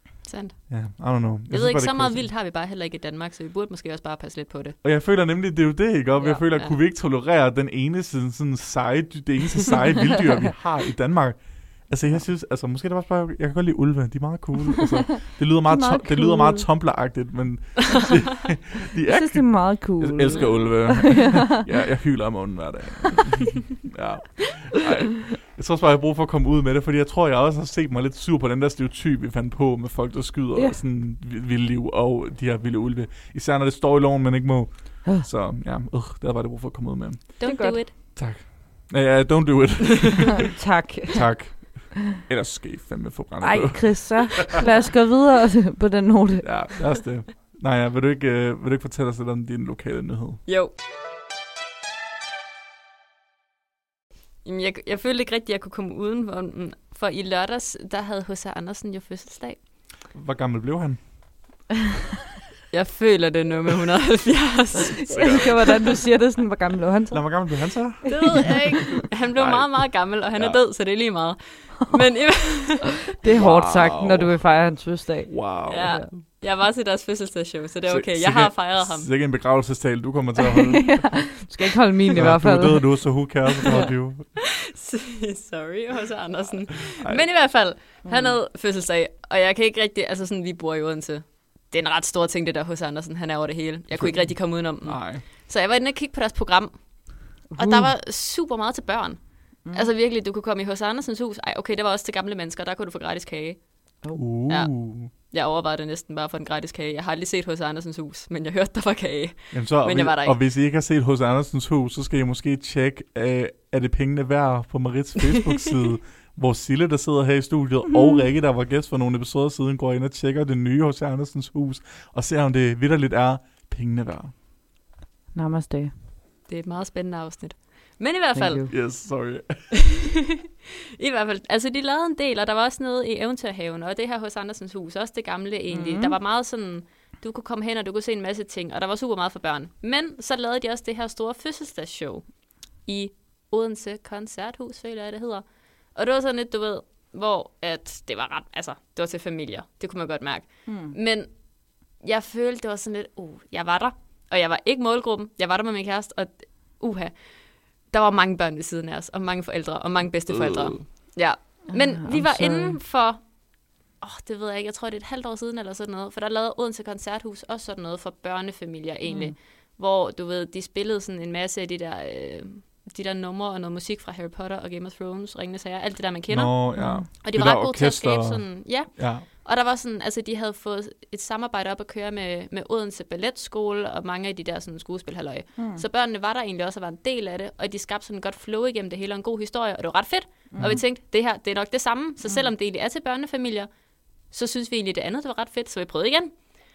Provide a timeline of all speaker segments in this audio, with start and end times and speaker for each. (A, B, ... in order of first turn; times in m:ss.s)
0:00.3-0:00.6 A
0:00.7-0:02.3 B
0:01.5-0:04.8 A
0:04.8-0:40.5 B
0:15.7-0:16.7 C
0:19.1-0:21.6 C
0:37.4-0:37.9 A
0:37.4-0:37.8 C
0:40.4-0:41.3 C
0:41.1-0:44.6 B
0:43.4-0:46.5 C
0:46.4-0:50.4 B
0:50.5-0:50.7 A
0:54.4-0:59.6 A
1:00.1-1:01.0 B
1:02.7-1:05.5 A
1:05.0-1:07.3 C
1:05.0-1:05.9 B
1:07.1-1:10.6 B
1:08.0-1:08.6 C
1:08.1-1:13.1 A
1:13.1-1:16.1 C
1:13.3-1:14.4 B
1:15.3-1:16.0 B
1:15.7-1:19.1 A
1:17.9-1:21.4 B
1:20.5-1:22.9 C
1:22.2-1:24.3 B
1:23.6-1:36.8 A
1:28.0-1:28.4 C
1:34.0-1:35.2 B
1:37.4-1:43.6 A
1:37.5-1:37.9 C
1:44.2-1:45.1 B
1:44.5-1:50.4 A
1:49.5-2:04.3 B
1:55.2-1:55.7 A
2:05.3-2:05.9 C
2:06.5-2:08.6 A
2:08.4-2:08.7 C
2:08.7-2:09.6 B
2:09.7-2:22.3 A
2:15.7-2:16.2 C
2:22.8-2:31.3 A
2:30.7-2:31.0 C
2:32.0-2:37.2 A
2:37.9-2:43.2 A
2:40.3-2:40.8 B
2:41.7-2:42.8 C
2:44.0-2:56.6 A
2:49.1-2:49.3 C
2:56.3-2:59.3 B
2:56.8-2:57.1 C
2:57.2-3:13.7 A
3:05.6-3:05.8 C
3:10.5-3:10.8 C
3:14.3-3:16.4 A